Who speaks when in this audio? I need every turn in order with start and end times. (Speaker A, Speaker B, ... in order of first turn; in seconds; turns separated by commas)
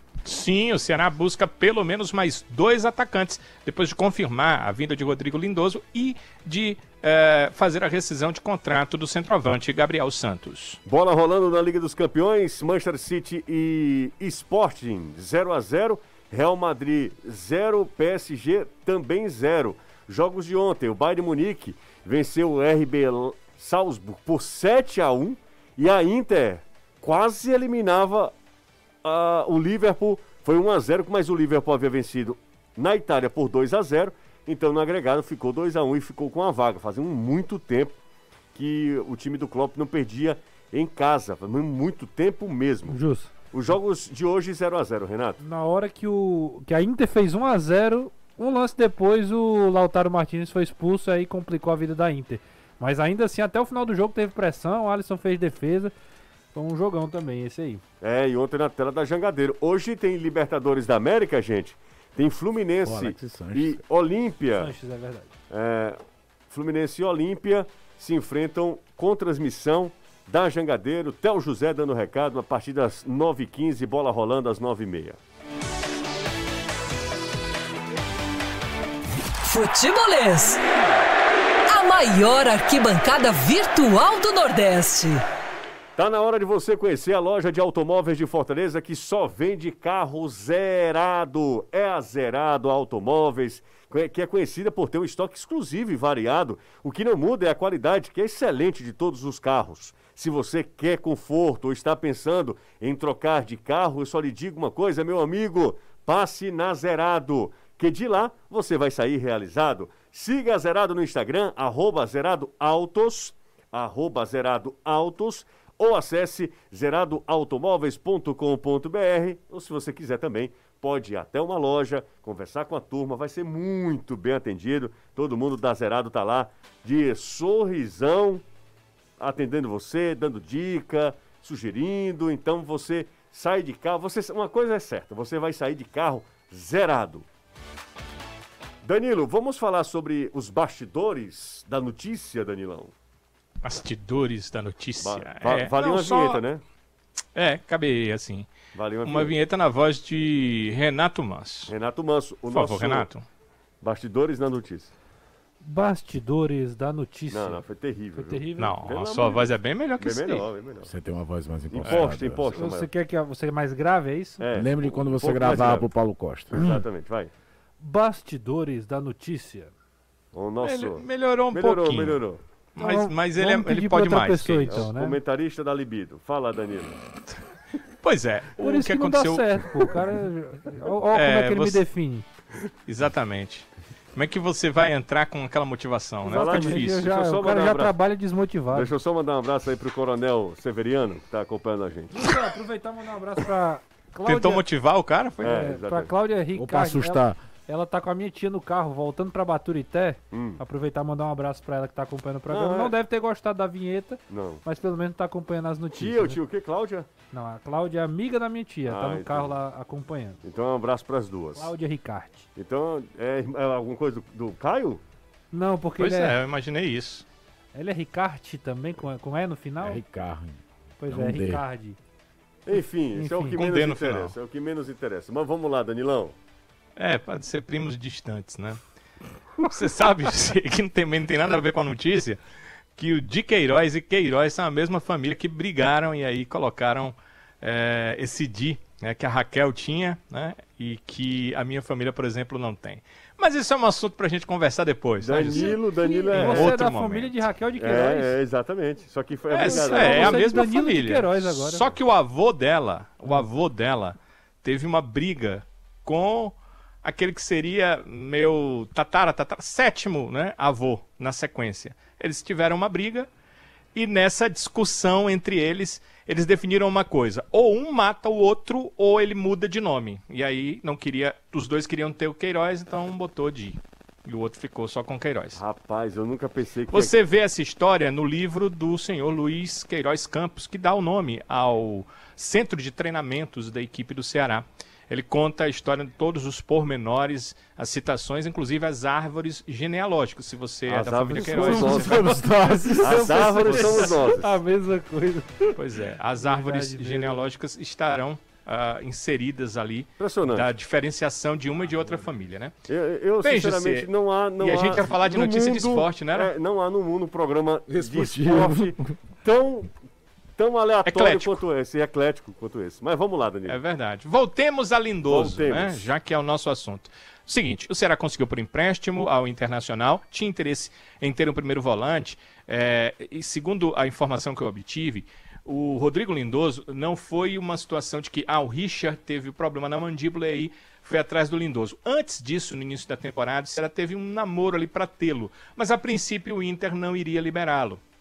Speaker A: 0.2-10.8, Speaker B: 10.8-28.3, Speaker B: 29.0-38.0, Speaker B: 38.5-43.0, Speaker C: 42.9-43.3, Speaker B: 43.5-45.4, Speaker C: 45.4-55.9, Speaker C: 56.5-57.8, Speaker B: 58.0-64.7, Speaker D: 62.8-63.8, Speaker C: 64.5-65.3, Speaker B: 65.5-75.2, Speaker E: 79.4-80.6, Speaker E: 81.7-85.2, Speaker B: 86.0-128.4, Speaker B: 129.2-137.2, Speaker B: 138.8-142.9, Speaker A: 143.6-146.4, Speaker B: 145.0-146.6, Speaker A: 147.3-148.5, Speaker B: 148.7-149.3, Speaker A: 149.0-151.7, Speaker B: 151.7-153.1, Speaker A: 152.5-153.2, Speaker B: 153.8-154.9, Speaker C: 155.6-158.8, Speaker B: 157.3-160.9, Speaker A: 158.6-160.5, Speaker D: 160.8-162.5, Speaker B: 161.7-162.9, Speaker A: 161.8-162.1, Speaker C: 162.5-164.4, Speaker B: 164.4-165.9, Speaker D: 164.5-166.8, Speaker B: 166.5-167.3, Speaker C: 167.8-169.7, Speaker B: 170.3-172.4, Speaker A: 170.6-172.2, Speaker A: 172.8-174.8, Speaker C: 172.8-175.2, Speaker B: 174.7-177.0, Speaker A: 178.0-179.6, Speaker C: 178.6-182.2, Speaker A: 181.1-181.8, Speaker A: 182.8-187.1, Speaker B: 186.2-187.9, Speaker C: 186.2-188.9, Speaker B: 188.7-192.2, Speaker C: 192.1-194.6, Speaker A: 194.2-195.6, Speaker C: 195.4-206.4, Speaker B: 195.4-196.1, Speaker D: 196.5-197.4, Speaker B: 200.3-200.6, Speaker B: 202.5-202.9, Speaker B: 204.3-204.6, Speaker B: 205.9-207.1, Speaker C: 207.3-210.4, Speaker B: 208.8-209.5, Speaker B: 210.4-211.7, Speaker C: 211.6-212.5, Speaker B: 212.6-215.0, Speaker C: 215.5-216.4, Speaker A: 216.0-217.2, Speaker C: 217.7-220.0, Speaker D: 219.8-221.6, Speaker C: 221.0-222.0, Speaker B: 222.7-226.3, Speaker C: 223.1-223.6, Speaker A: 223.5-224.3, Speaker A: 227.0-228.8, Speaker A: 229.6-232.4, Speaker A: 233.0-247.4, Speaker B: 245.2-246.8, Speaker C: 245.5-248.4, Speaker B: 247.8-250.6, Speaker A: 249.5-263.3, Speaker C: 249.6-251.9, Speaker A: 263.9-275.6, Speaker B: 275.5-277.1, Speaker A: 276.9-292.2, Speaker B: 290.9-292.2, Speaker C: 291.4-295.8, Speaker D: 291.6-294.0, Speaker B: 293.0-294.6, Speaker A: 295.8-302.7, Speaker C: 296.4-297.4, Speaker B: 300.2-300.7, Speaker B: 302.9-309.9, Speaker A: 303.4-306.5, Speaker D: 307.9-309.0, Speaker B: 310.6-313.8, Speaker A: 311.1-311.6, Speaker A: 313.7-338.0, Speaker B: 315.3-316.1